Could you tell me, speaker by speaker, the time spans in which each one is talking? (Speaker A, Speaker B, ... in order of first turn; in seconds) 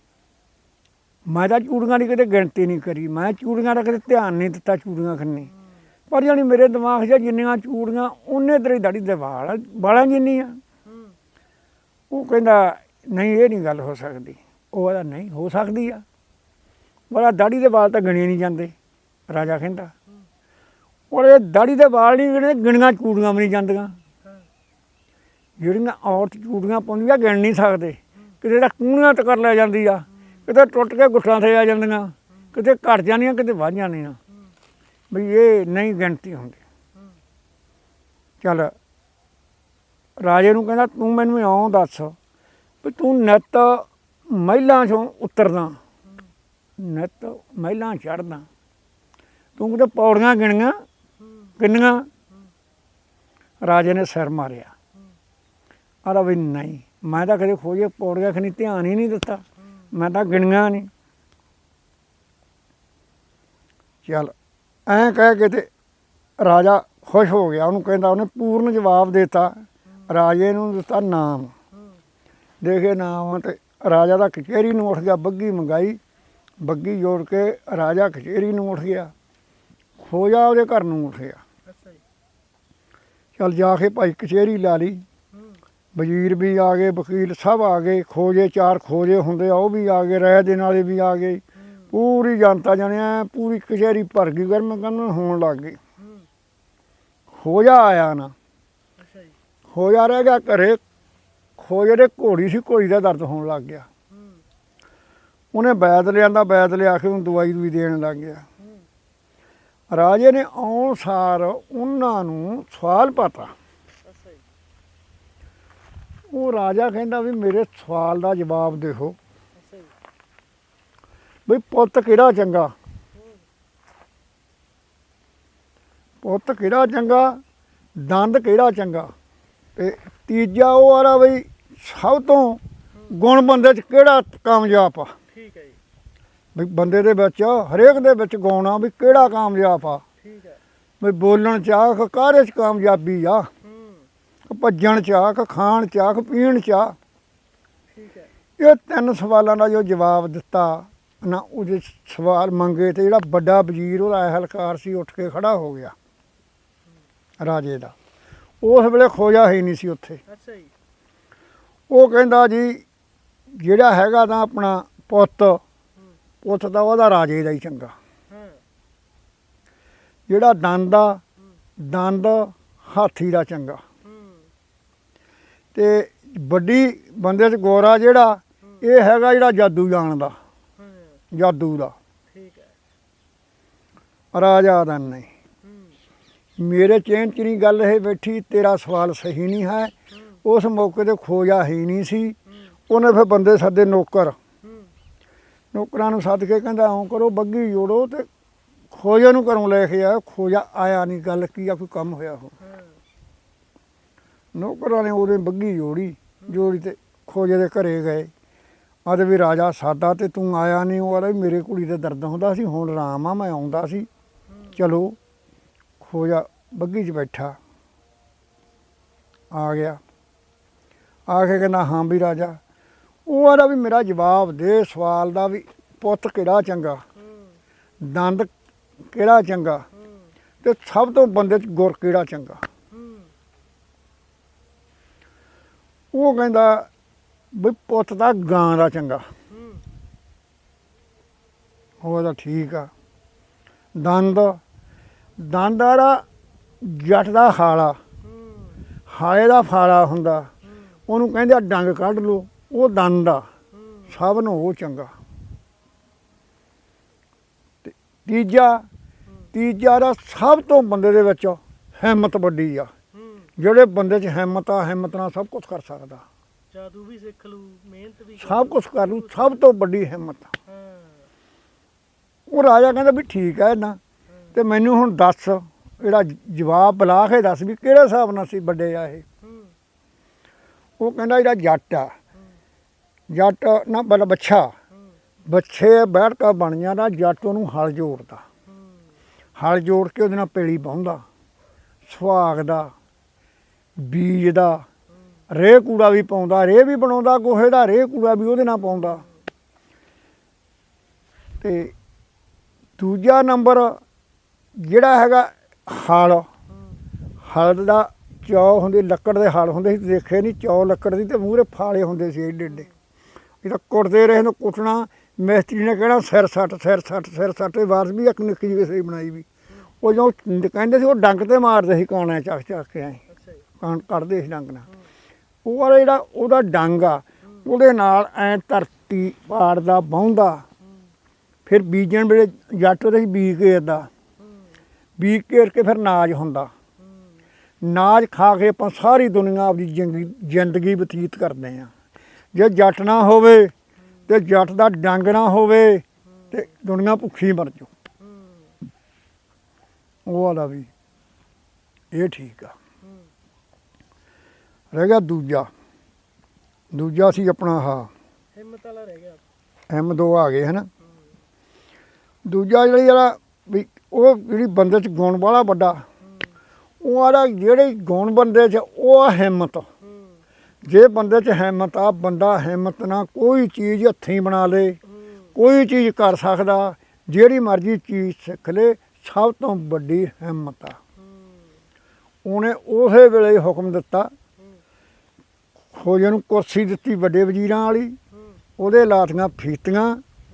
Speaker A: 1.3-5.5, 6.1-10.6, 12.1-16.0, 17.1-18.7, 19.3-19.9, 21.1-24.0, 25.6-34.2, 35.1-36.6, 38.4-38.7, 40.2-42.2, 42.8-45.8, 46.8-48.5, 49.6-50.8, 51.6-52.1, 53.6-54.7, 56.0-60.9, 64.0-64.3, 64.9-65.7, 66.4-71.5, 72.6-76.0, 76.6-79.1, 80.0-81.4, 83.4-85.0, 86.0-95.8, 97.3-98.3, 99.7-100.8, 101.6-103.9, 105.5-108.4, 109.9-113.5, 116.3-119.2, 121.5-122.7, 126.2-127.4, 128.0-129.1, 129.8-135.2, 136.6-140.0, 141.0-143.5, 144.5-147.0, 148.6-155.9, 157.4-157.9, 158.6-160.2, 161.9-162.8, 163.5-165.6, 166.4-167.9, 170.3-171.2, 171.8-173.8, 175.8-180.4, 181.3-181.9, 184.3-185.3, 186.6-189.9, 190.4-192.4, 192.9-194.4, 195.7-198.3, 198.9-202.5, 204.6-208.3, 209.1-214.1, 214.8-215.2, 216.0-217.6, 219.5-220.0, 221.3-222.6, 223.3-227.0, 228.0-228.5, 229.1-229.9, 230.6-232.6, 236.1-236.9, 237.5-239.3, 242.0-242.9, 243.9-244.6, 245.4-246.2, 246.8-248.0, 249.1-250.5, 251.1-253.5, 254.1-255.1, 257.9-258.9, 259.5-262.9, 263.6-266.2, 268.4-270.5, 272.5-274.0, 274.5-279.2, 281.0-282.1, 283.3-284.7, 285.5-288.4, 289.6-291.2, 292.1-292.9, 294.0-294.9, 295.5-299.2, 301.6-301.9, 303.0-304.0, 304.8-306.5, 307.4-312.9, 313.6-319.5, 320.0-323.2, 323.8-324.9, 325.6-330.6, 331.7-334.1, 335.2-336.7, 337.8-341.9, 342.5-343.7, 344.3-347.9, 350.3-350.9, 352.1-352.7, 354.9-355.7, 356.9-358.1, 359.9-360.9, 362.4-366.1, 367.0-369.9, 370.9-375.0, 375.6-381.0, 382.4-384.3, 385.9-388.2, 388.8-390.2
Speaker B: 10.9-11.2, 81.7-82.0, 85.3-85.6, 96.0-96.3, 99.0-99.4, 104.1-104.4, 114.0-114.5, 119.6-119.9, 123.2-123.4, 135.3-135.8, 140.2-140.6, 143.6-144.1, 147.9-148.3, 160.3-160.7, 168.3-168.6, 174.1-174.5, 180.8-181.2, 182.3-182.7, 185.6-186.0, 202.6-202.9, 232.9-233.3, 239.6-239.8, 248.3-248.8, 253.8-254.1, 266.7-269.5, 270.7-271.3, 279.4-279.7, 323.4-323.6, 348.2-348.7, 358.5-359.4, 370.1-370.4, 381.3-381.6